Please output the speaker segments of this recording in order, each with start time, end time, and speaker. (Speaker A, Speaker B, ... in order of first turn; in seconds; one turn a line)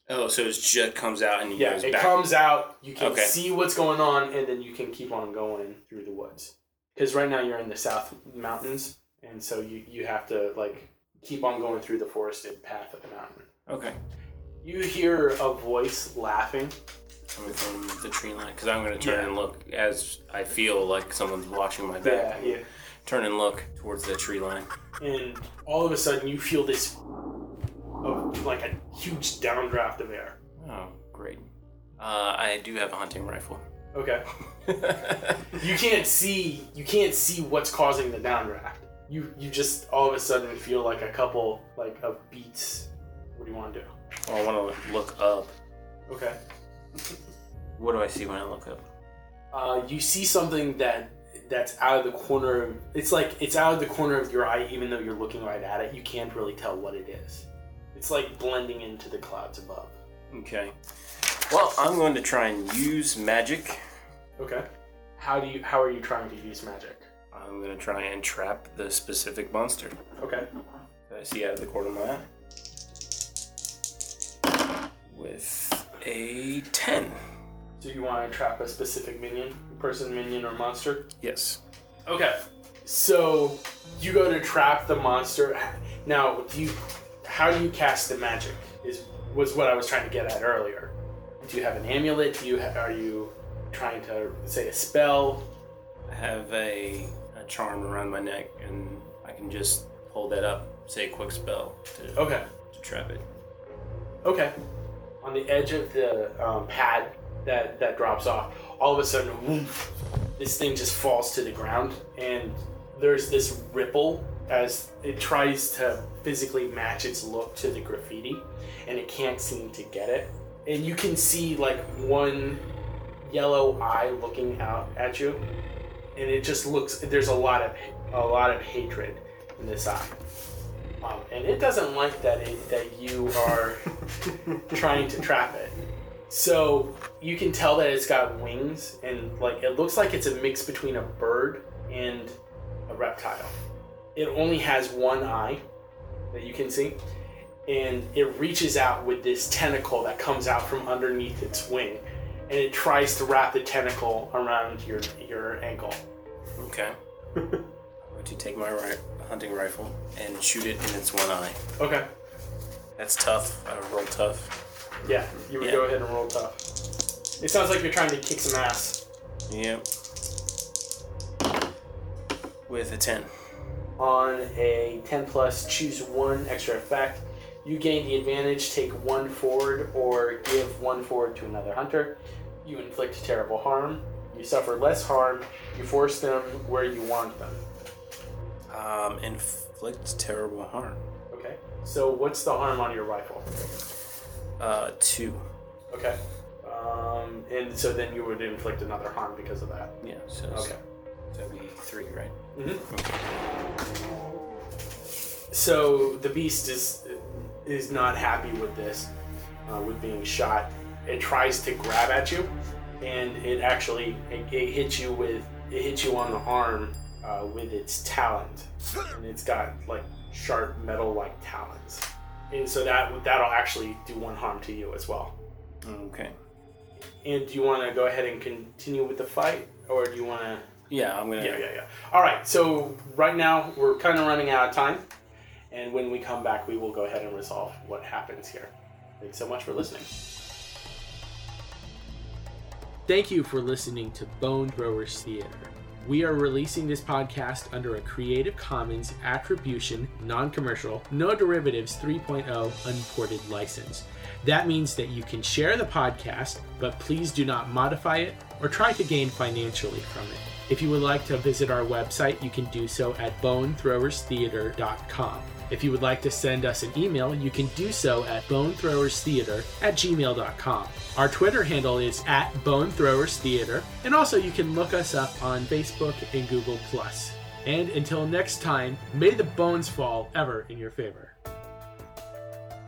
Speaker A: 0.1-2.3
Speaker B: 1.6-13.5
Speaker A: 3.0-3.4
Speaker A: 13.7-14.0
Speaker B: 14.6-16.8
Speaker A: 17.3-24.7
Speaker B: 19.0-19.3
Speaker B: 22.0-22.6
Speaker B: 25.0-27.0
Speaker B: 28.0-30.4
Speaker A: 30.6-31.5
Speaker A: 32.0-33.6
Speaker B: 33.9-34.2
Speaker A: 34.6-35.6
Speaker B: 35.5-43.9
Speaker A: 44.3-45.5
Speaker B: 46.1-46.4
Speaker A: 47.8-48.8
Speaker B: 49.5-60.0
Speaker A: 60.3-63.8
Speaker B: 64.4-64.7
Speaker B: 65.2-67.1
Speaker A: 67.3-70.0
Speaker B: 70.2-70.5
Speaker A: 71.1-72.3
Speaker A: 75.1-77.2
Speaker B: 77.8-81.1
Speaker A: 81.2-81.6
Speaker B: 82.1-95.5
Speaker A: 96.1-103.2
Speaker B: 102.2-102.5
Speaker B: 104.2-104.6
Speaker B: 105.2-122.7
Speaker B: 123.2-125.4
Speaker B: 126.2-130.2
Speaker B: 131.0-134.0
Speaker B: 134.6-135.7
Speaker B: 136.3-142.4
Speaker B: 142.9-143.5
Speaker B: 144.2-145.6
Speaker B: 146.3-147.0
Speaker B: 147.7-156.1
Speaker A: 156.6-157.0
Speaker A: 158.1-161.6
Speaker B: 161.8-162.1
Speaker A: 163.0-164.5
Speaker B: 165.0-166.7
Speaker A: 165.6-165.9
Speaker B: 167.4-169.0
Speaker A: 169.5-169.9
Speaker A: 172.7-173.3
Speaker B: 174.0-187.6
Speaker A: 188.7-191.0
Speaker B: 191.3-193.5
Speaker A: 194.6-195.5
Speaker B: 195.9-199.9
Speaker A: 200.0-200.7
Speaker B: 200.5-200.8
Speaker A: 201.3-202.4
Speaker B: 202.6-202.9
Speaker A: 202.9-203.3
Speaker B: 205.5-209.1
Speaker B: 209.7-212.5
Speaker B: 213.0-225.3
Speaker A: 225.8-226.3
Speaker B: 227.2-230.7
Speaker A: 230.9-231.6
Speaker B: 231.4-235.1
Speaker B: 235.7-240.1
Speaker B: 243.1-281.4